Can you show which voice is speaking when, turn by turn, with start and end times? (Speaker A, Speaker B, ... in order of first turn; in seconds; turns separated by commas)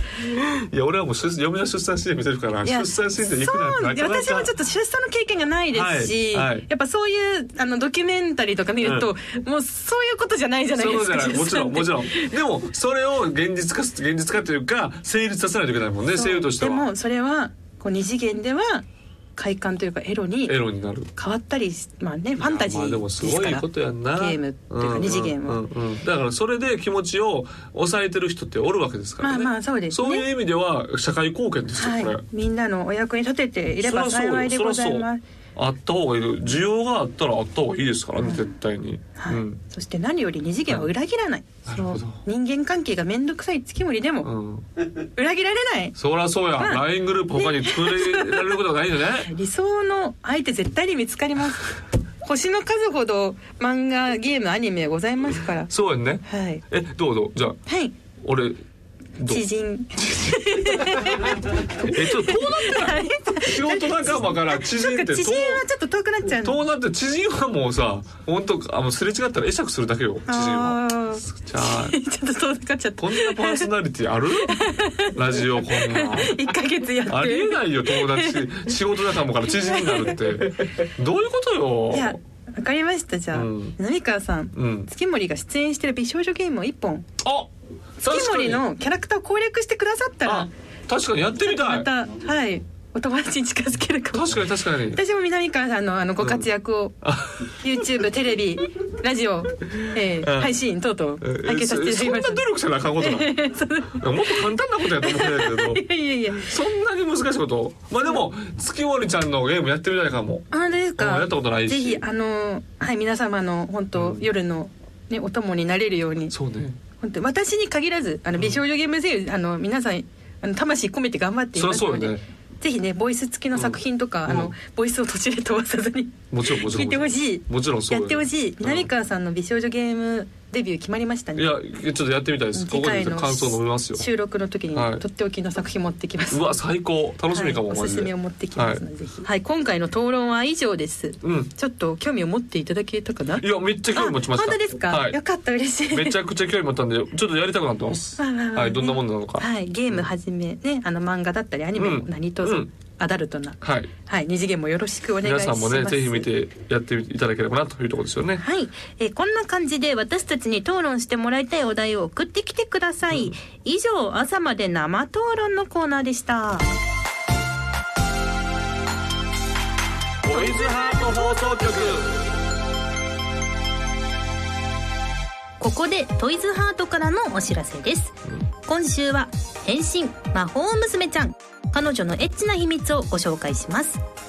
Speaker A: 0.2-4.5, Speaker B: 2.6-12.3, Speaker A: 5.7-6.7, Speaker A: 8.8-9.1, Speaker A: 10.7-16.9, Speaker B: 16.1-18.9, Speaker B: 19.4-20.6, Speaker A: 20.4-21.1, Speaker B: 21.1-25.6, Speaker A: 22.4-32.2, Speaker B: 29.2-30.3, Speaker B: 31.8-35.2, Speaker A: 33.8-39.6, Speaker B: 38.2-38.5, Speaker B: 39.1-44.3, Speaker A: 41.6-42.2, Speaker A: 44.2-44.6, Speaker B: 45.1-46.0, Speaker A: 46.0-49.3, Speaker B: 46.6-48.6, Speaker B: 49.2-51.7, Speaker B: 52.2-55.7, Speaker A: 55.7-57.6, Speaker B: 56.2-56.6, Speaker B: 57.7-57.9, Speaker A: 58.2-58.6, Speaker A: 59.2-59.4, Speaker B: 59.3-66.6, Speaker A: 60.0-65.6, Speaker A: 66.3-72.0, Speaker B: 70.3-73.7, Speaker A: 73.0-76.3, Speaker B: 74.5-78.5, Speaker A: 77.0-82.2, Speaker B: 79.5-80.5, Speaker B: 81.9-87.1, Speaker A: 83.3-83.8, Speaker A: 84.5-84.9, Speaker A: 87.2-88.6, Speaker B: 88.0-90.5, Speaker A: 90.2-91.9, Speaker B: 91.4-94.4, Speaker A: 94.1-95.0, Speaker B: 94.9-97.0, Speaker A: 96.2-96.5, Speaker A: 97.0-98.0, Speaker B: 97.5-102.4, Speaker A: 99.7-100.5, Speaker A: 101.2-103.3, Speaker B: 103.0-106.5, Speaker A: 103.9-105.8, Speaker A: 106.3-112.0, Speaker B: 110.5-116.3, Speaker A: 113.9-114.3, Speaker A: 116.3-116.8, Speaker B: 117.0-131.5, Speaker A: 121.5-122.2, Speaker A: 123.5-124.5, Speaker A: 126.3-128.9, Speaker A: 131.3-134.1, Speaker B: 132.5-136.5, Speaker A: 134.7-135.0, Speaker A: 136.3-138.8, Speaker B: 137.3-146.2, Speaker A: 141.2-141.5, Speaker A: 143.4-145.2, Speaker A: 145.9-150.1, Speaker B: 148.2-156.3, Speaker A: 151.7-152.7, Speaker A: 153.6-153.9, Speaker A: 155.2-158.4, Speaker B: 158.4-166.7, Speaker A: 163.1-163.3, Speaker A: 170.2-172.2, Speaker B: 170.3-171.9, Speaker B: 175.6-184.0